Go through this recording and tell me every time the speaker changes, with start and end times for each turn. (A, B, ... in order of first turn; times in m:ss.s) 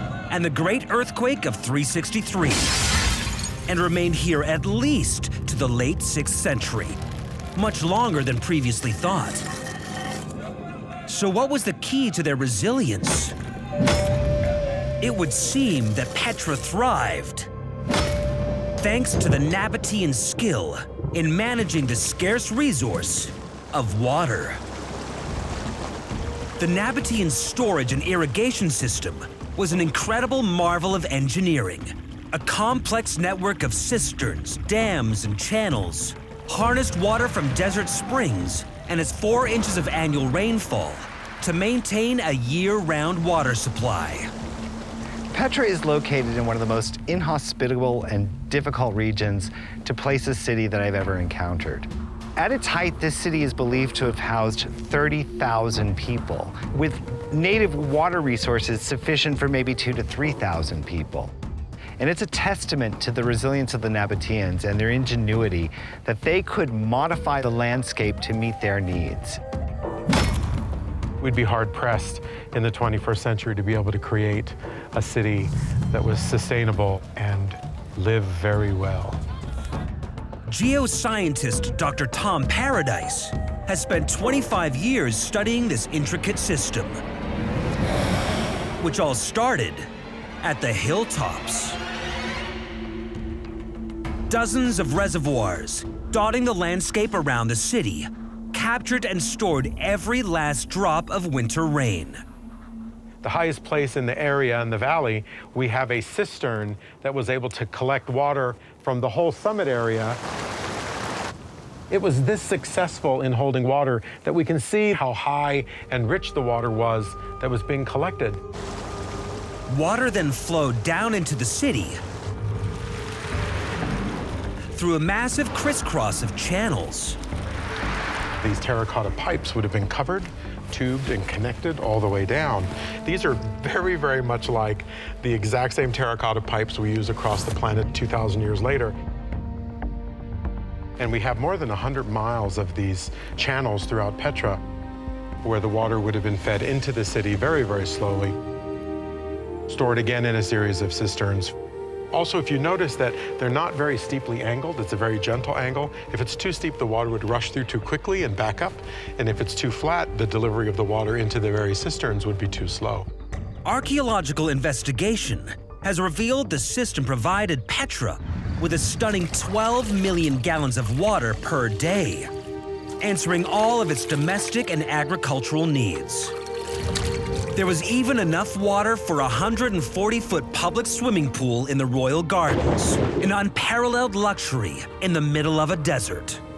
0:00.3-0:02.7 A
0:03.7-0:07.0 A
0:07.6-0:09.5 A
0:11.1-0:13.3 A
0:15.0-0:17.5 A
0:18.8-0:24.6 A
0:26.6-0:44.3 A
0:45.3-1:01.3 B
1:02.0-1:09.4 B
1:11.2-1:19.2 C
1:20.5-1:27.0 A
1:28.8-1:29.9 A
1:30.4-1:31.8 A
1:34.3-1:42.2 A
1:43.2-1:50.2 C
1:51.9-1:58.4 C
1:59.7-2:02.0 A
2:04.7-2:07.2 A
2:08.4-2:18.9 C
2:21.0-2:24.6 C
2:25.4-2:28.4 C
2:29.7-2:31.5 C
2:32.1-2:43.1 C
2:43.6-2:52.3 A
2:53.0-2:56.3 A
2:57.5-3:06.4 A